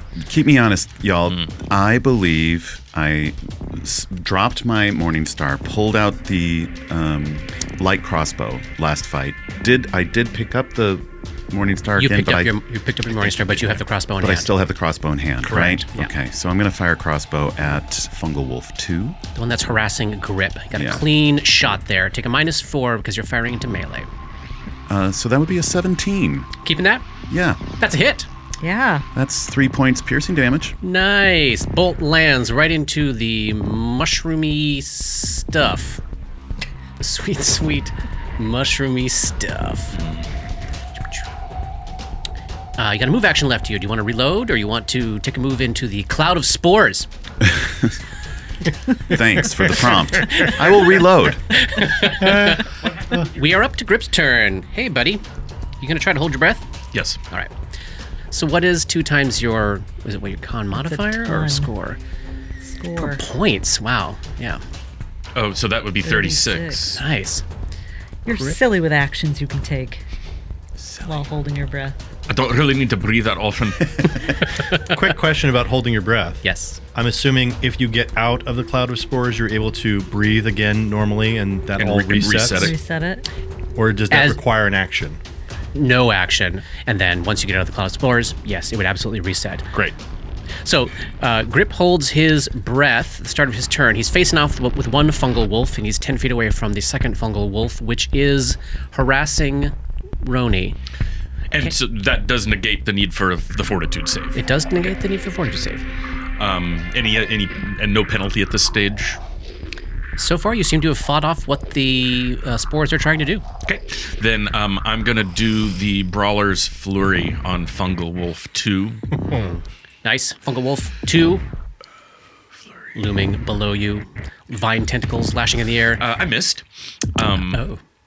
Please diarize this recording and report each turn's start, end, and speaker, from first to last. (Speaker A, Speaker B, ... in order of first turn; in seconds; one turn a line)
Speaker A: 0.2-12.6
Speaker B: 12.0-14.5
Speaker A: 13.1-19.2
Speaker B: 15.4-16.1
Speaker B: 19.3-24.1
Speaker A: 20.7-21.0
Speaker A: 24.9-26.5
Speaker B: 26.6-27.1
Speaker A: 27.3-27.6
Speaker B: 27.8-28.3
Speaker C: 28.6-29.1
Speaker A: 29.1-30.8
Speaker B: 30.8-36.0
Speaker B: 37.0-40.0
Speaker D: 40.0-40.3
Speaker B: 41.0-41.2
Speaker B: 42.8-47.1
Speaker A: 47.4-47.9
Speaker A: 49.0-51.4
Speaker B: 50.2-55.2
Speaker E: 52.3-52.5
Speaker B: 55.8-56.6
Speaker D: 56.9-57.2
Speaker B: 58.3-62.0
Speaker C: 60.7-61.7
Speaker C: 62.6-63.2
Speaker B: 63.0-64.6
Speaker D: 65.3-67.0
Speaker C: 66.0-67.0
Speaker B: 67.0-67.4
Speaker C: 68.2-70.0
Speaker C: 71.0-72.0
Speaker D: 72.3-74.4
Speaker E: 74.9-82.7
Speaker B: 76.4-76.8
Speaker D: 81.8-82.7
Speaker C: 82.5-83.3
Speaker E: 83.8-85.2
Speaker B: 84.1-84.4
Speaker B: 85.7-89.7
Speaker B: 90.6-100.8
Speaker D: 101.5-104.4
Speaker B: 104.3-105.8
Speaker D: 106.4-109.2
Speaker B: 110.2-113.4
Speaker D: 113.6-119.0
Speaker B: 119.2-121.4
Speaker B: 122.9-126.0
Speaker D: 126.0-126.6
Speaker D: 127.2-127.6
Speaker B: 127.5-127.8